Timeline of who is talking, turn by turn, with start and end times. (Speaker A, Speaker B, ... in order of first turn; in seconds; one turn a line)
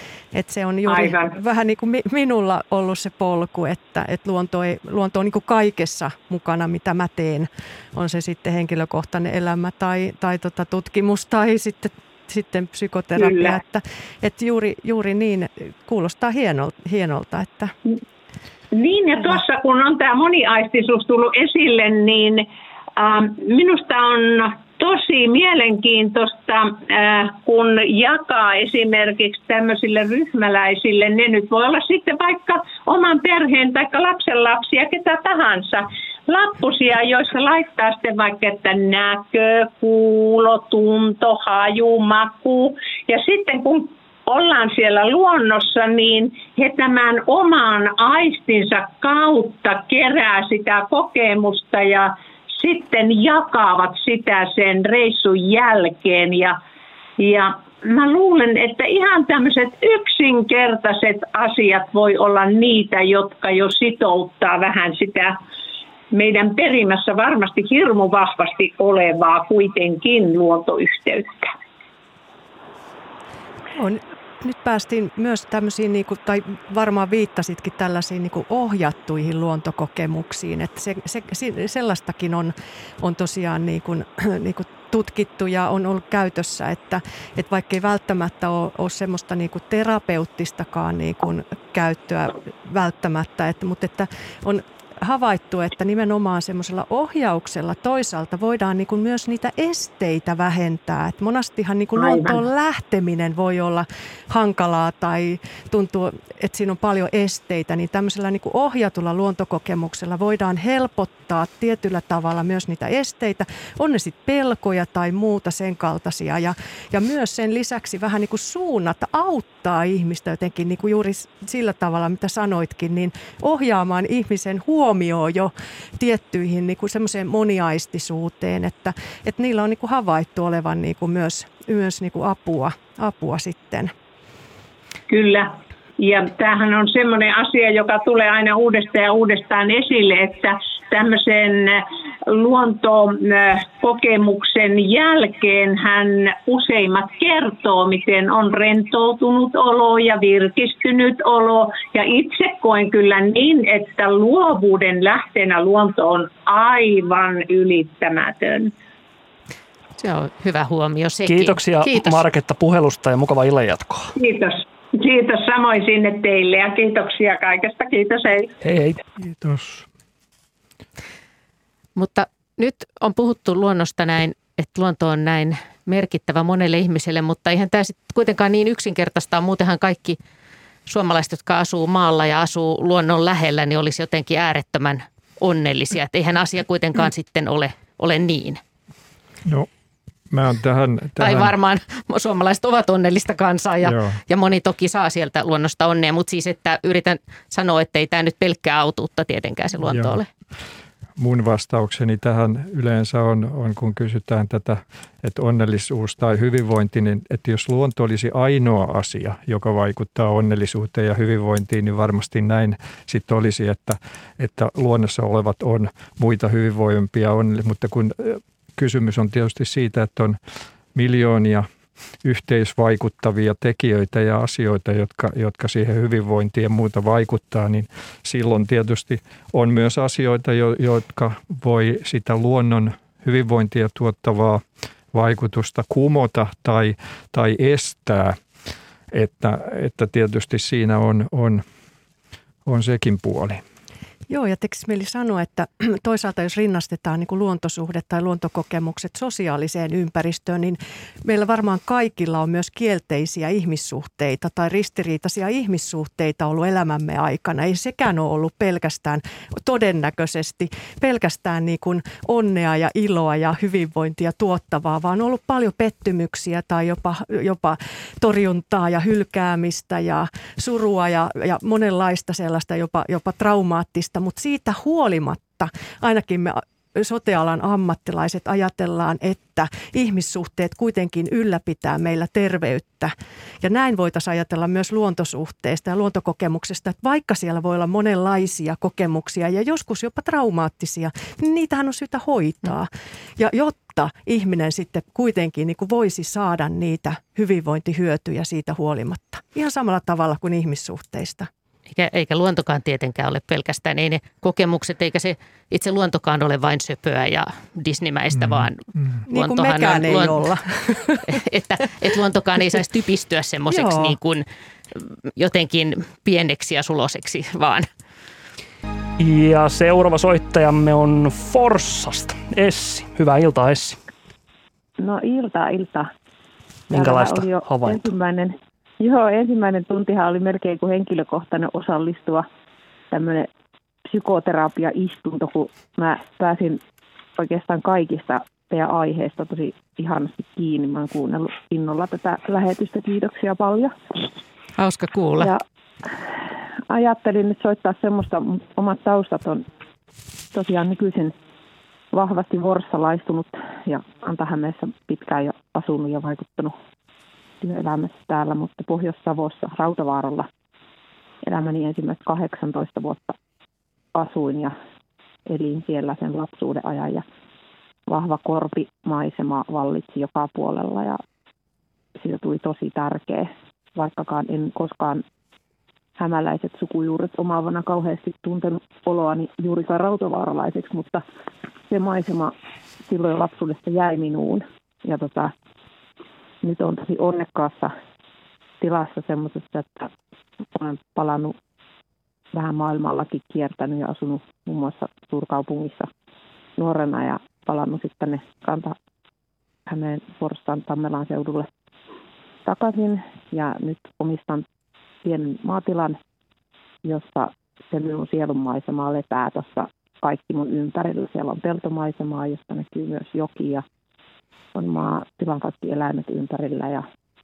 Speaker A: 0.3-17.7
Speaker B: 0.9-1.4
Speaker B: 13.2-13.6
Speaker B: 18.7-56.6
Speaker B: 57.2-65.4
Speaker B: 66.1-71.5
Speaker A: 73.7-133.9
Speaker B: 102.0-102.4
Speaker B: 135.1-158.7
Speaker C: 160.0-162.2
Speaker D: 161.2-164.1
Speaker B: 164.2-168.5
Speaker D: 168.6-169.0
Speaker E: 169.2-169.9
Speaker C: 172.0-180.2
Speaker C: 180.9-188.6
Speaker E: 190.3-191.6
Speaker C: 191.2-200.2
Speaker E: 193.8-194.2
Speaker E: 199.8-200.2
Speaker E: 201.2-220.4
Speaker E: 220.9-221.7
Speaker E: 222.2-238.4
Speaker E: 239.1-241.6
Speaker E: 242.7-243.6
Speaker A: 244.3-301.5
Speaker C: 301.9-310.4
Speaker E: 308.3-309.2
Speaker A: 309.3-311.3
Speaker C: 311.3-314.4
Speaker A: 313.7-314.2
Speaker C: 314.9-317.9
Speaker D: 319.2-324.0
Speaker F: 325.0-326.1
Speaker D: 326.9-328.1
Speaker F: 326.9-332.5
Speaker F: 333.1-333.5
Speaker F: 334.1-336.8
Speaker F: 337.4-343.9
Speaker C: 344.8-345.5
Speaker F: 346.9-349.6
Speaker F: 350.5-351.4
Speaker F: 352.1-356.7
Speaker F: 357.6-360.5
Speaker F: 361.4-363.4
Speaker F: 364.1-364.7
Speaker F: 365.5-367.2
Speaker F: 368.1-371.2
Speaker F: 372.2-375.2
Speaker F: 376.2-381.2
Speaker F: 381.9-382.5
Speaker F: 383.1-385.5
Speaker F: 386.6-387.9
Speaker F: 388.8-390.1
Speaker F: 390.8-391.6
Speaker F: 392.5-396.1
Speaker F: 396.8-399.0
Speaker F: 399.9-401.7
Speaker F: 402.6-404.6
Speaker F: 405.2-406.2
Speaker F: 407.1-413.9
Speaker F: 414.8-417.1